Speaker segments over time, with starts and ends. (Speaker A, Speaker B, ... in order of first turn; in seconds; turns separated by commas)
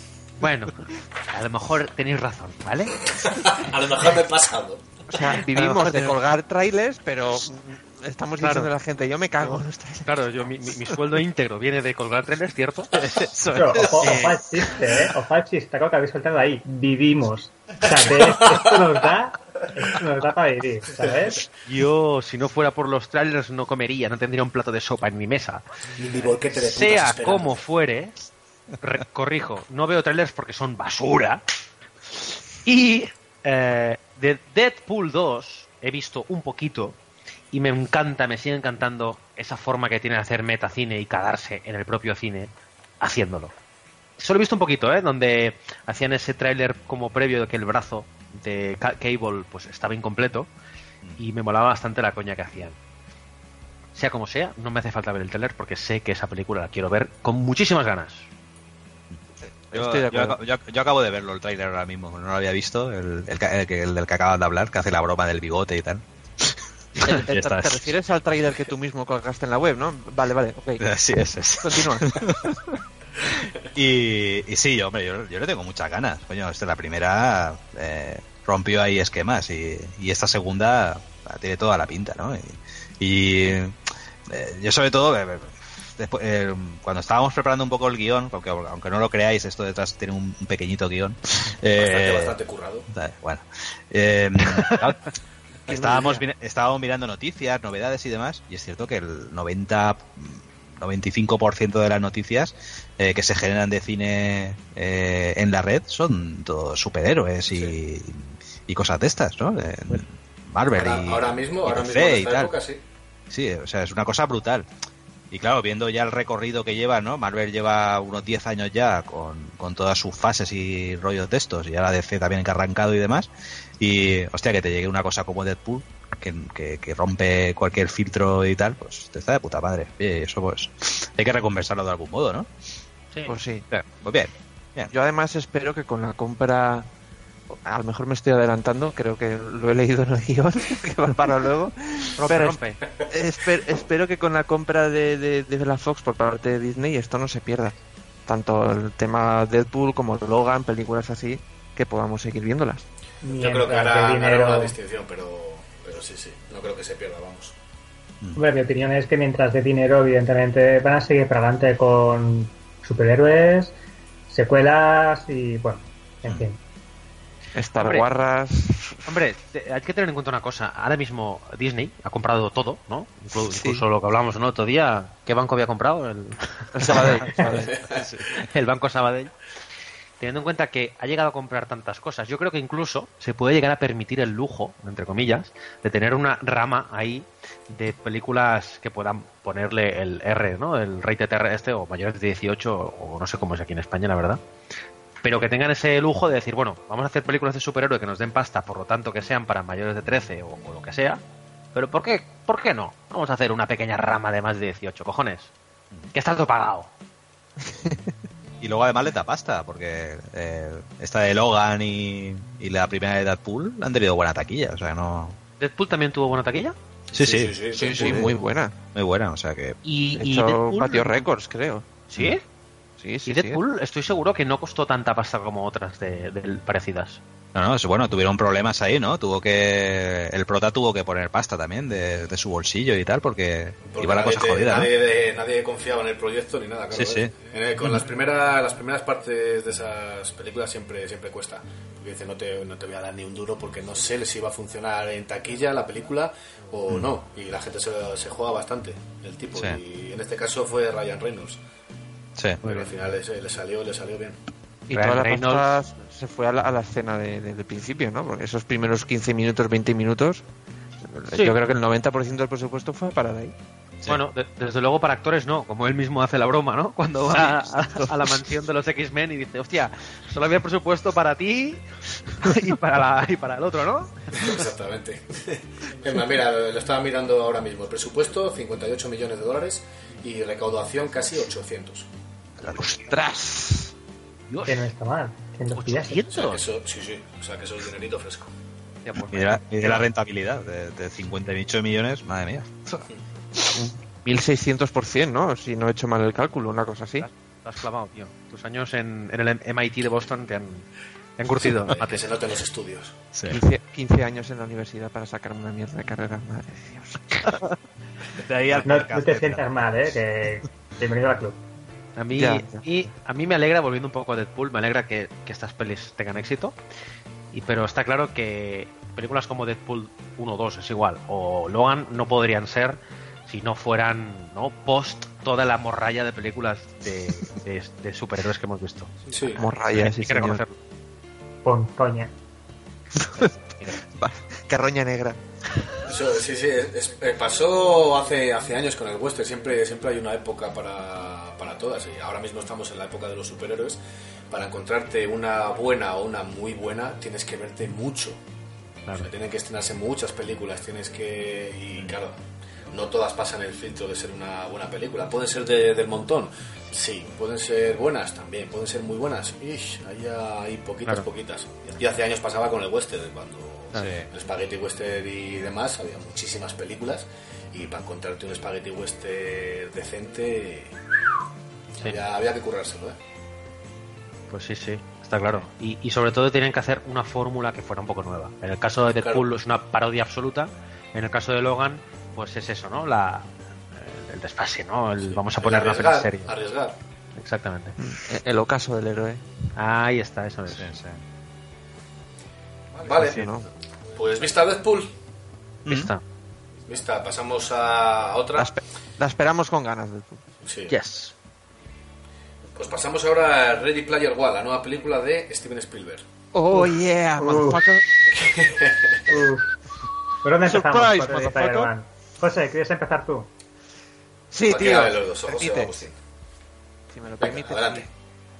Speaker A: 0.4-0.7, Speaker A: 1.3-3.0, Speaker B: 3.2-4.8, Speaker C: 5.1-10.2, Speaker A: 5.5-6.1, Speaker A: 8.4-8.7, Speaker A: 9.4-13.2, Speaker C: 13.0-14.4, Speaker D: 13.5-21.4, Speaker B: 18.1-18.7, Speaker A: 21.6-25.6, Speaker B: 26.0-27.6, Speaker A: 26.5-28.1, Speaker A: 28.8-31.4, Speaker A: 32.6-37.0, Speaker A: 37.5-43.5, Speaker A: 44.2-50.5, Speaker A: 51.2-52.8, Speaker A: 53.9-58.3, Speaker C: 59.7-60.4, Speaker E: 59.7-66.0, Speaker C: 67.0-70.8, Speaker E: 67.0-67.9, Speaker E: 70.8-72.5, Speaker C: 71.6-72.5, Speaker E: 73.7-83.8, Speaker E: 84.3-92.3, Speaker B: 91.8-92.9, Speaker E: 92.9-95.0, Speaker E: 95.7-112.5, Speaker C: 95.7-96.2, Speaker B: 107.5-107.8, Speaker B: 110.7-112.8, Speaker E: 113.3-114.7, Speaker E: 115.3-123.3, Speaker E: 123.8-132.5, Speaker C: 133.2-133.6, Speaker E: 133.7-134.9, Speaker C: 134.9-136.9, Speaker C: 137.5-147.7, Speaker A: 142.2-142.8, Speaker C: 148.3-152.8, Speaker D: 153.2-154.7, Speaker B: 153.3-157.5, Speaker D: 158.3-163.7, Speaker D: 164.3-166.6, Speaker C: 167.5-169.1, Speaker A: 167.8-168.0, Speaker A: 169.1-177.5, Speaker C: 173.3-173.8, Speaker C: 176.7-177.8, Speaker E: 177.1-178.3, Speaker A: 178.3-179.3, Speaker A: 180.2-194.4, Speaker A: 195.2-201.2, Speaker A: 201.7-205.5, Speaker A: 206.1-206.9, Speaker E: 208.6-215.4, Speaker A: 215.6-216.7, Speaker E: 217.1-218.3, Speaker B: 217.1-218.2, Speaker A: 217.7-218.2, Speaker C: 217.8-218.7, Speaker E: 218.9-219.8, Speaker A: 219.8-221.2, Speaker C: 220.1-221.8, Speaker A: 222.1-222.4, Speaker C: 223.0-223.6, Speaker A: 223.2-227.2, Speaker E: 227.5-234.9, Speaker B: 233.8-251.6, Speaker E: 236.9-238.0, Speaker E: 249.5-249.8, Speaker B: 252.6-254.4, Speaker A: 252.6-252.9, Speaker C: 254.9-260.4, Speaker A: 254.9-255.7, Speaker C: 261.0-263.5, Speaker A: 261.3-261.6, Speaker A: 264.1-274.6, Speaker C: 267.3-268.3, Speaker B: 274.4-282.1, Speaker E: 282.6-283.0, Speaker C: 282.6-283.9, Speaker A: 284.5-284.9, Speaker D: 284.6-286.2, Speaker A: 285.7-286.6, Speaker B: 286.3-288.5, Speaker A: 289.1-290.1, Speaker E: 289.3-293.1, Speaker C: 293.7-297.3, Speaker A: 297.2-300.9, Speaker A: 301.4-302.3, Speaker B: 301.9-303.2, Speaker E: 303.3-303.6, Speaker C: 303.5-307.6, Speaker E: 308.4-309.6, Speaker D: 308.8-311.6, Speaker A: 312.1-316.7, Speaker C: 312.3-312.8, Speaker A: 317.5-330.7, Speaker B: 329.3-329.6, Speaker C: 329.5-330.6, Speaker D: 331.6-332.3, Speaker C: 333.1-333.5, Speaker A: 333.4-334.0, Speaker C: 334.0-335.4, Speaker B: 336.1-344.0, Speaker B: 344.5-348.4, Speaker B: 349.1-352.4, Speaker B: 352.9-370.9, Speaker E: 363.9-364.3, Speaker B: 372.0-373.2, Speaker A: 374.5-386.5, Speaker B: 379.2-379.4, Speaker B: 385.2-387.0, Speaker A: 387.4-387.9, Speaker C: 388.0-389.4, Speaker A: 389.8-390.9, Speaker E: 390.7-391.2, Speaker B: 392.9-393.5, Speaker C: 393.1-393.6, Speaker B: 394.1-395.1, Speaker E: 395.9-396.1, Speaker A: 395.9-396.2, Speaker B: 396.9-398.7, Speaker C: 398.6-400.4, Speaker B: 400.6-401.0, Speaker A: 400.9-401.3, Speaker B: 402.7-406.2, Speaker C: 406.5-408.0, Speaker D: 406.7-407.9, Speaker B: 408.3-409.3, Speaker D: 409.3-409.7, Speaker D: 410.4-413.5, Speaker C: 410.6-411.9, Speaker C: 414.5-416.0, Speaker B: 414.6-416.1, Speaker C: 417.1-418.1, Speaker B: 417.4-418.1